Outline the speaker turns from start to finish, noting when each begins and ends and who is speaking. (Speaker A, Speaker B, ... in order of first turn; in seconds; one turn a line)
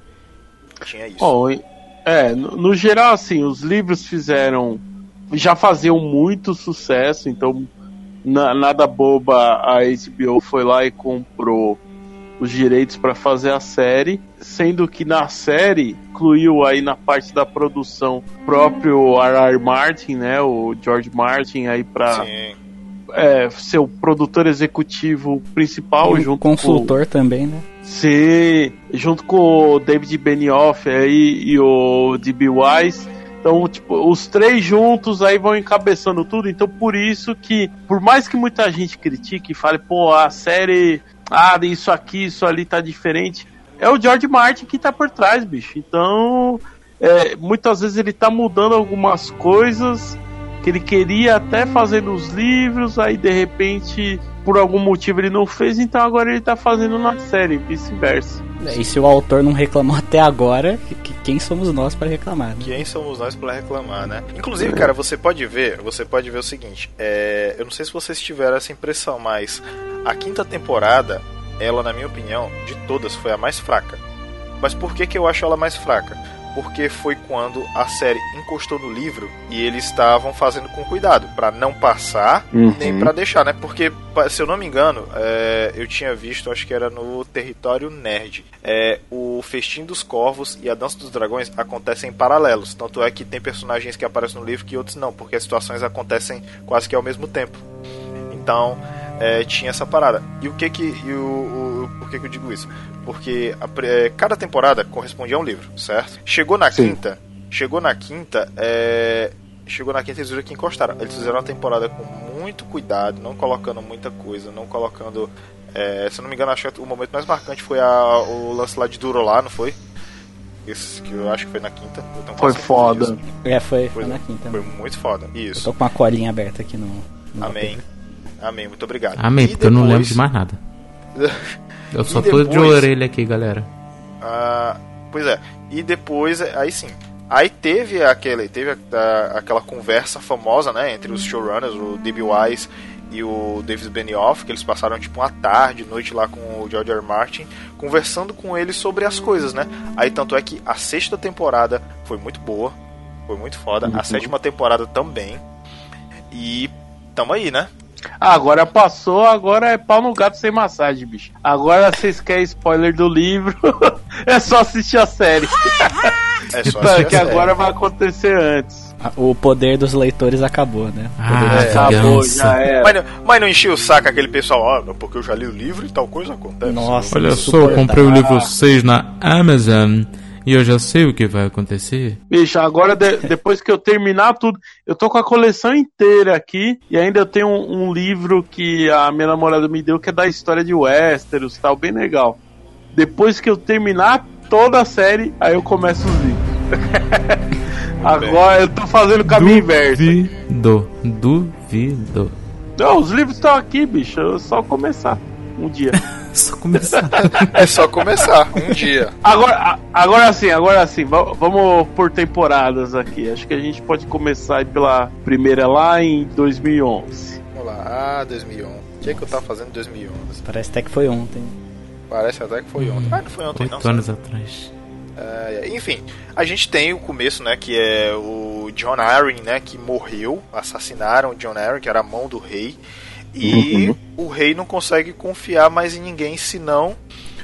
Speaker A: 0.8-1.3
Speaker B: 1.2-7.7
Speaker B: 8.2-11.8
Speaker B: 12.4-22.3
Speaker A: 22.1-22.6
Speaker B: 23.2-26.9
Speaker C: 26.0-27.6
Speaker B: 27.8-58.5
Speaker C: 58.6-62.8
Speaker A: 62.6-74.0
Speaker B: 64.6-64.9
Speaker A: 74.6-97.6
Speaker B: 82.5-83.1
Speaker A: 98.3-119.8
Speaker A: 120.7-123.2
Speaker B: 122.4-123.2
Speaker C: 123.4-124.7
Speaker A: 123.9-125.7
Speaker C: 125.6-127.8
Speaker A: 127.4-127.8
Speaker A: 128.4-130.2
Speaker D: 129.2-130.6
Speaker A: 131.2-131.6
Speaker D: 131.9-133.7
Speaker A: 132.1-132.9
Speaker A: 134.2-152.8
Speaker A: 153.3-155.4
Speaker B: 153.8-154.3
Speaker A: 156.3-157.7
Speaker B: 158.2-166.1
Speaker A: 166.5-167.5
Speaker D: 166.7-167.4
Speaker B: 166.7-168.9
Speaker C: 169.0-172.2
Speaker D: 171.2-172.6
Speaker A: 171.5-171.8
Speaker B: 171.5-172.9
Speaker A: 172.8-177.9
Speaker C: 176.7-178.1
Speaker D: 177.1-182.2
Speaker B: 178.1-178.5
Speaker B: 182.3-192.4
Speaker B: 192.9-197.4
Speaker A: 198.0-198.4
Speaker B: 198.0-200.2
Speaker D: 199.3-202.3
Speaker B: 202.8-206.0
Speaker D: 206.2-207.6
Speaker A: 207.3-209.1
Speaker B: 209.2-217.4
Speaker A: 217.5-220.4
Speaker C: 219.0-219.4
Speaker C: 220.4-221.6
Speaker A: 222.1-224.1
Speaker D: 222.8-224.7
Speaker A: 225.2-232.8
Speaker A: 233.3-237.0
Speaker B: 233.4-233.9